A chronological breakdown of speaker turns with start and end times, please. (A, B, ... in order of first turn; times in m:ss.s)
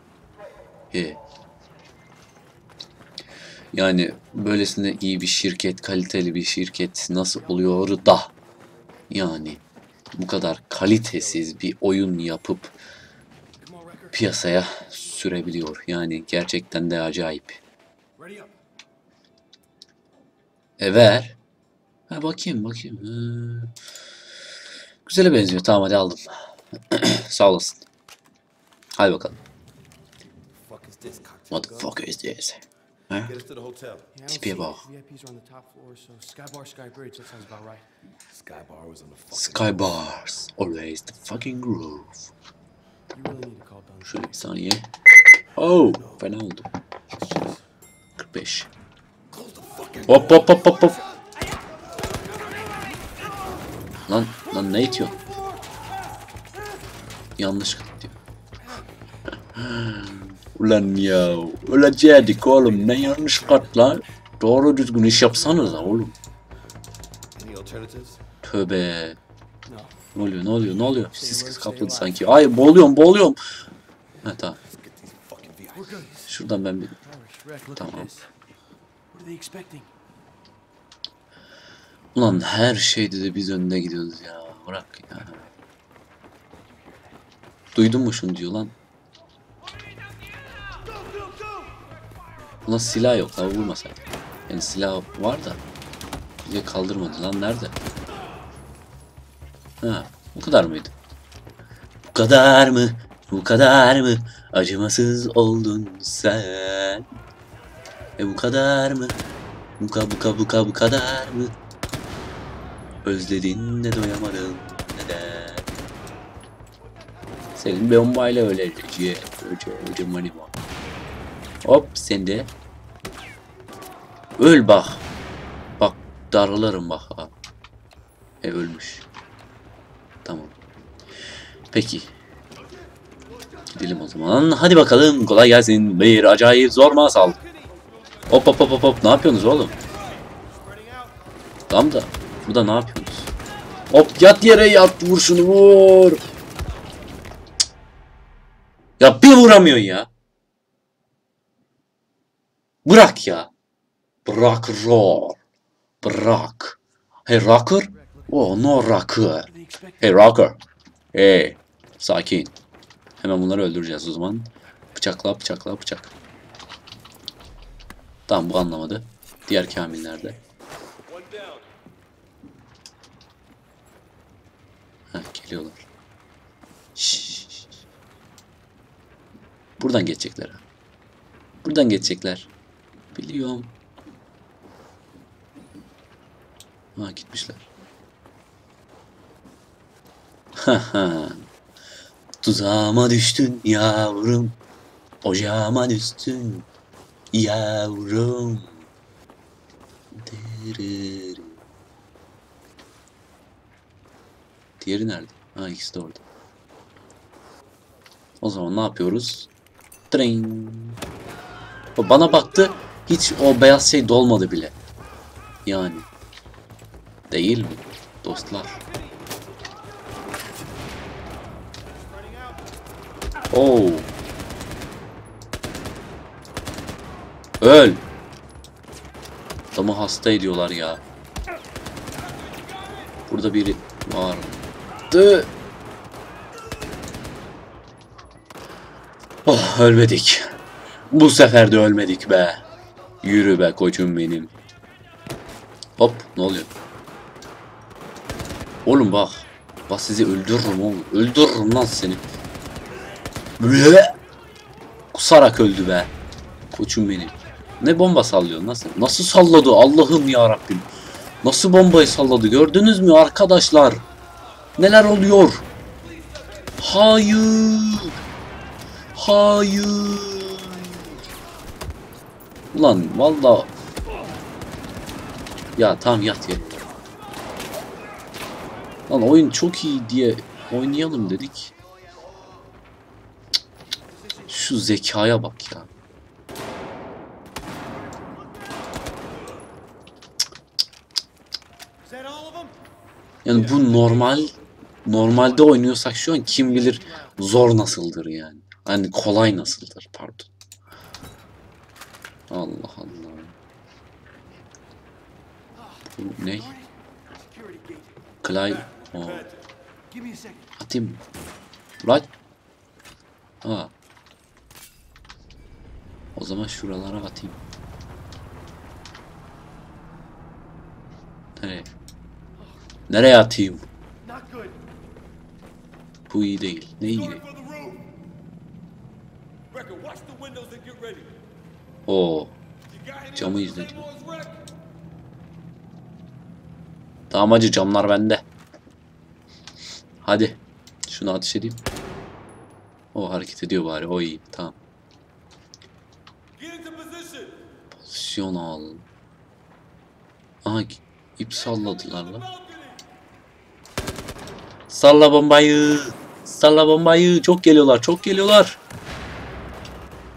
0:00.9-0:01.2 A
0:03.7-0:08.3 A
0:09.1-0:09.6 A
0:10.1-0:12.7 A
0:13.6-0:14.5 B
0:14.1-0:17.6 A
0:18.2-0:18.6 B
0:20.8-0:21.4 A
0:22.1-0:23.7 A
0:25.1-0:26.2 A
0:26.9-0:27.8 A
0:29.0-0:29.4 A
0:30.6-0:31.9 C
0:31.5-0:33.3 A
0:33.2-0:34.1 C
0:34.1-0:37.8 B
0:34.3-0:34.8 A
0:38.3-0:39.9 C
0:39.3-0:42.3 A
0:43.1-0:44.5 B
0:44.0-0:44.9 A
0:45.6-0:46.7 A
0:45.6-0:46.2 B
0:47.2-0:47.6 B
0:48.2-0:48.7 A
0:49.3-0:51.3 B
0:50.0-0:50.5 C
0:50.1-0:51.0 A
0:52.1-0:53.3 B
0:54.1-0:55.2 A
0:54.5-0:55.9 B
0:57.4-0:58.2 A
0:59.6-1:06.2 A
1:02.6-1:03.8 B
1:05.2-1:06.0 B
1:07.3-1:08.2 C
1:08.4-1:09.2 A
1:09.7-1:10.0 B
1:10.1-1:13.4 A
1:11.2-1:12.2 B
1:14.2-1:14.6 A
1:14.6-1:16.1 C
1:15.7-1:16.4 B
1:16.3-1:17.0 A
1:17.0-1:18.3 B
1:17.8-1:18.1 A
1:19.1-1:19.9 B
1:22.2-1:25.5 A
1:27.8-1:28.7 A
1:31.0-1:31.8 B
1:32.7-1:35.6 A
1:36.4-1:37.8 A
1:39.8-1:40.9 A
1:42.1-1:47.1 A
1:48.2-1:49.2 A
1:49.8-1:51.6 A
1:53.0-1:55.7 A
1:57.6-2:00.5 A
2:01.6-2:02.5 A
2:04.4-2:05.0 A
2:05.8-2:07.3 A
2:08.4-2:09.0 A
2:10.2-2:10.6 A
2:11.7-2:12.1 A
2:13.7-2:17.4 A
2:17.1-2:18.3 B
2:18.3-2:19.8 A
2:19.7-2:21.2 B
2:21.7-2:23.3 A
2:23.9-2:26.2 A
2:29.0-2:30.1 A
2:32.8-2:33.5 A
2:34.2-2:35.4 A
2:36.0-2:39.5 A
2:37.9-2:38.5 B
2:39.5-2:40.2 B
2:40.0-2:40.6 A
2:41.1-2:42.5 A
2:43.2-2:46.1 A
2:48.3-2:50.4 A
2:51.1-2:51.7 C
2:55.1-2:55.9 A
2:57.0-2:57.8 A
2:59.8-3:00.6 A
3:01.6-3:02.5 A
3:03.1-3:03.7 A
3:07.0-3:07.6 A
3:10.6-3:11.5 A
3:12.4-3:14.6 A
3:15.2-3:16.7 A
3:17.3-3:18.8 A
3:20.1-3:21.6 A
3:24.8-3:26.2 A
3:28.4-3:29.5 A
3:30.1-3:31.0 A
3:32.0-3:34.8 A
3:35.7-3:36.1 A
3:37.3-3:38.8 A
3:42.1-3:42.6 B
3:43.5-3:44.1 A
3:47.6-3:48.0 A
3:49.7-3:51.0 A
3:53.3-3:54.6 A
3:55.1-3:55.5 A
3:59.5-4:00.5 A
4:01.1-4:02.6 A
4:03.2-4:04.5 A
4:06.0-4:06.7 A
4:08.8-4:12.2 A
4:13.6-4:14.2 A
4:15.1-4:16.1 A
4:16.7-4:20.9 A
4:21.4-4:24.0 A
4:24.8-4:25.6 A
4:26.8-4:28.2 A
4:29.2-4:31.0 A
4:32.7-4:33.7 A
4:35.8-4:36.8 A
4:39.1-4:41.7 A
4:44.1-4:44.6 B
4:44.5-4:45.9 A
4:52.1-4:52.7 B
4:53.4-5:00.5 A
4:53.5-4:54.2 B
4:56.5-4:57.4 B
5:02.5-5:03.5 A
5:05.8-5:08.2 B
5:06.2-5:06.7 A
5:08.4-5:09.5 A
5:08.8-5:09.6 C
5:10.1-5:10.7 B
5:10.8-5:11.2 A
5:12.0-5:12.3 A
5:13.6-5:13.9 A
5:16.4-5:17.6 A
5:21.6-5:21.9 A
5:23.1-5:23.9 A
5:24.2-5:24.8 B
5:26.3-5:27.4 A
5:27.1-5:28.1 C
5:29.7-5:31.4 C
5:32.1-5:32.6 A
5:32.9-5:34.7 C
5:33.4-5:34.0 A
5:37.3-5:38.4 A
5:40.2-5:41.8 A
5:43.1-5:44.8 A
5:46.6-5:47.6 C
5:47.9-5:49.0 A
5:50.6-5:52.5 A
5:52.6-5:53.0 C
5:54.9-5:58.8 A